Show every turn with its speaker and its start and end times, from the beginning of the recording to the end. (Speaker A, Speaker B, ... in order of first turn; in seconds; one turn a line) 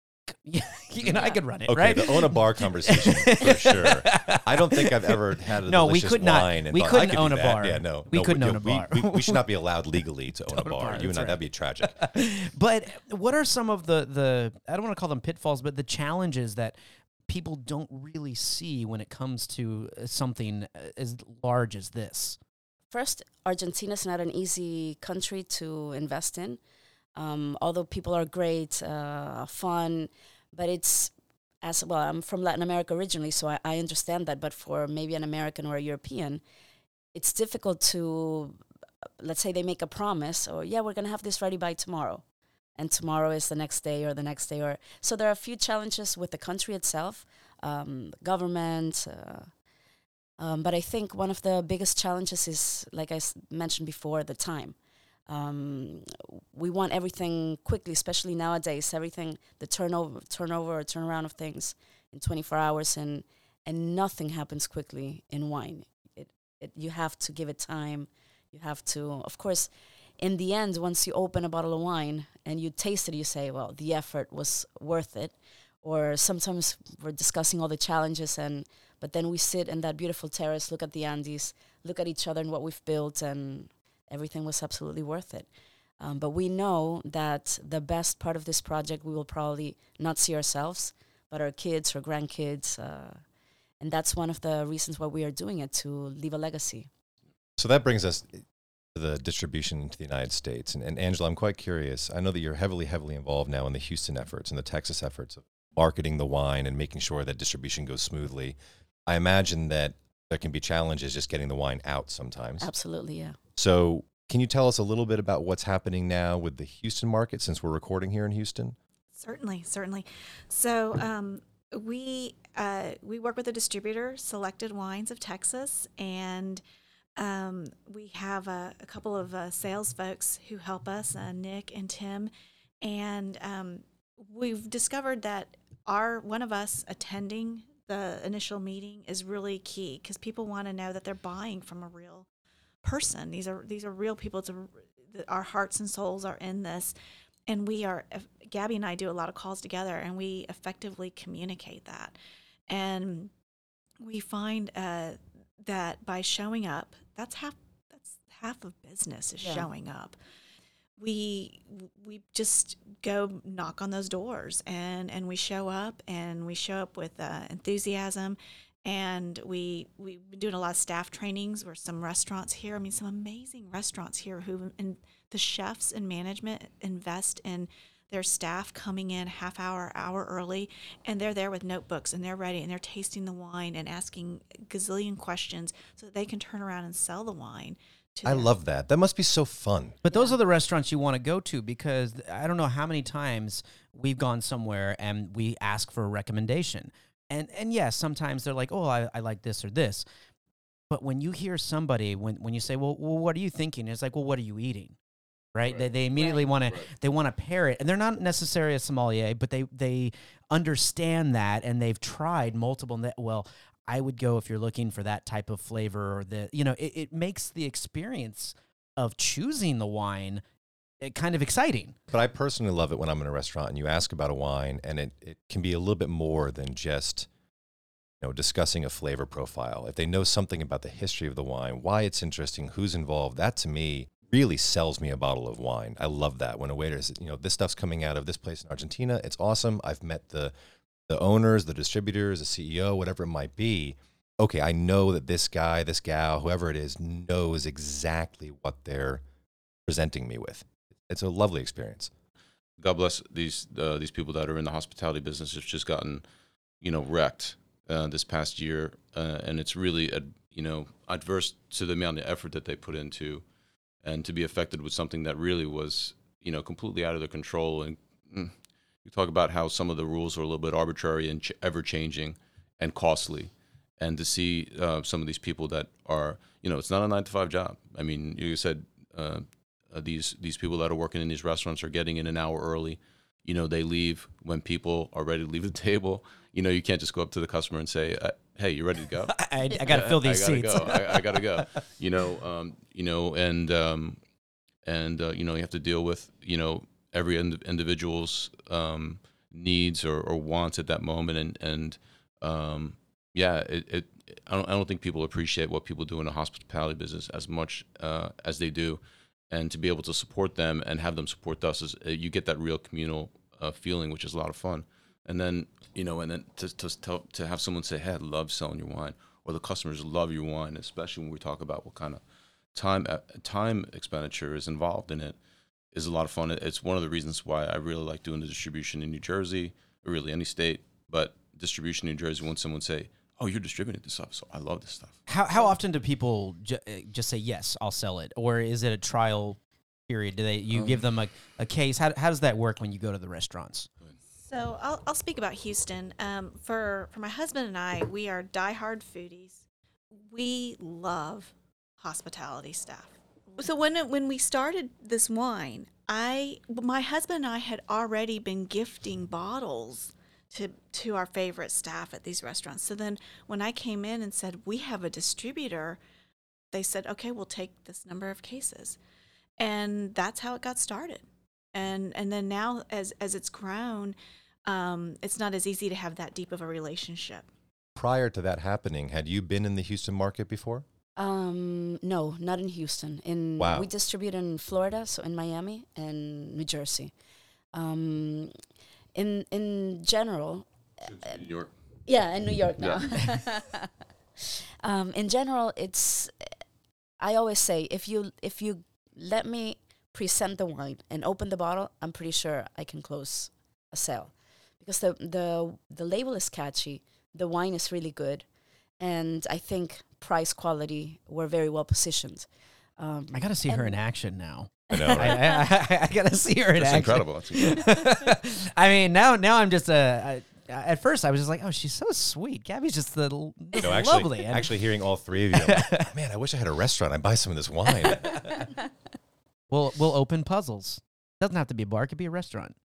Speaker A: 0.3-9.4
Speaker B: 1.7-11.9
Speaker A: 10.5-11.4
Speaker A: 11.9-16.7
Speaker A: 17.3-22.4
Speaker C: 22.9-26.6
Speaker C: 27.1-36.4
Speaker C: 37.1-38.6
Speaker C: 39.2-42.2
Speaker C: 42.8-49.5
Speaker C: 50.4-54.8
Speaker C: 55.3-85.5
Speaker C: 86.0-93.2
Speaker C: 93.8-96.9
Speaker B: 97.6-108.5
Speaker B: 109.1-112.7
Speaker C: 112.6-113.4
Speaker B: 113.5-118.8
Speaker D: 119.1-126.6
Speaker D: 127.2-132.3
Speaker D: 132.8-142.2
Speaker D: 142.8-146.9
Speaker D: 147.5-152.2
Speaker D: 152.7-153.3
Speaker D: 154.0-160.2
Speaker C: 159.4-159.7
Speaker D: 161.0-188.5
Speaker B: 188.2-190.0
Speaker A: 190.0-200.0
Speaker C: 190.1-190.3
Speaker A: 200.9-204.9
Speaker A: 205.5-220.4
Speaker C: 206.1-206.5
Speaker A: 221.0-222.0
Speaker B: 222.1-227.3
Speaker B: 228.2-240.5
Speaker B: 241.1-249.2
Speaker B: 249.9-252.1
Speaker E: 252.8-256.2
Speaker E: 256.8-263.4
Speaker E: 264.0-268.5
Speaker E: 269.0-289.3
Speaker A: 289.3-291.6
Speaker E: 289.9-294.2
Speaker E: 294.8-322.2
Speaker E: 322.7-325.4
Speaker E: 325.9-335.2
Speaker A: 335.3-343.9
Speaker E: 340.7-341.0
Speaker D: 344.4-349.6
Speaker D: 350.2-366.0
Speaker D: 366.7-369.0
Speaker D: 369.6-377.5
Speaker B: 377.9-380.8
Speaker C: 381.2-387.1
Speaker B: 383.6-383.9
Speaker C: 387.7-388.5
Speaker C: 389.1-390.7
Speaker E: 391.1-391.7
Speaker C: 392.1-393.9
Speaker E: 392.8-393.3
Speaker C: 394.4-396.3
Speaker C: 397.2-408.4
Speaker C: 409.0-412.5
Speaker C: 413.0-413.9
Speaker A: 413.3-424.8
Speaker C: 414.9-415.6
Speaker B: 414.9-415.4
Speaker E: 416.8-417.8
Speaker B: 423.7-428.7
Speaker A: 425.5-426.1
Speaker A: 429.7-432.7